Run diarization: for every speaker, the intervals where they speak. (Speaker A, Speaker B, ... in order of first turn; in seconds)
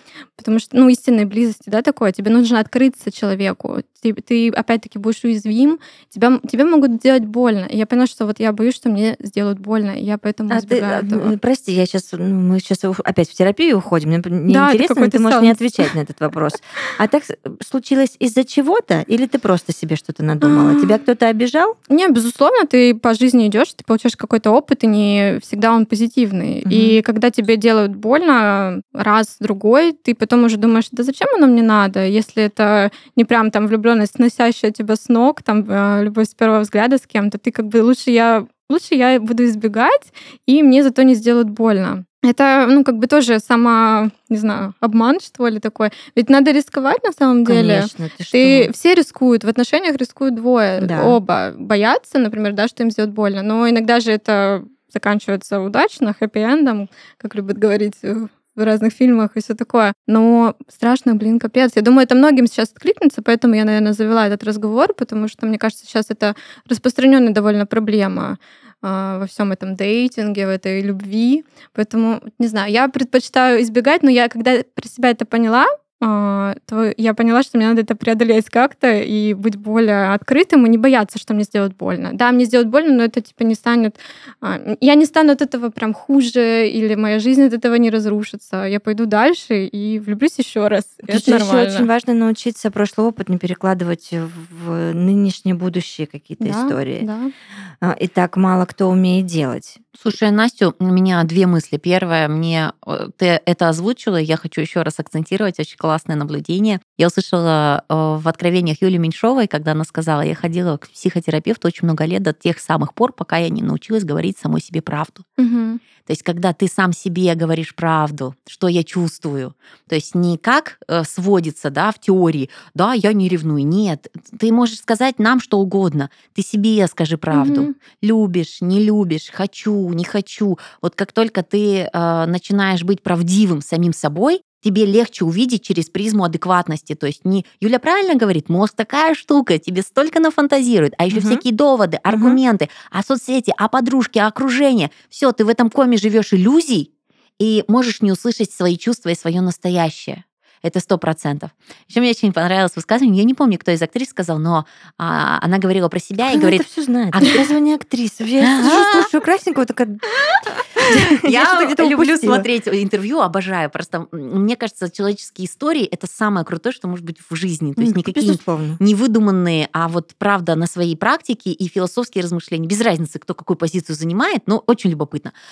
Speaker A: 0.4-11.3, 14.5-15.6, 20.4-20.9, 21.9-91.9, 96.4-97.3, 115.4-115.8, 127.3-127.7
Speaker B: 10.5-21.7, 26.6-27.0, 47.5-48.7, 50.8-51.2, 91.1-97.1, 97.8-99.8, 141.1-141.4, 142.1-142.4, 156.2-160.1, 160.8-162.5, 167.8-168.8
Speaker C: 99.9-115.2, 116.0-157.5, 158.4-159.1, 160.8-175.3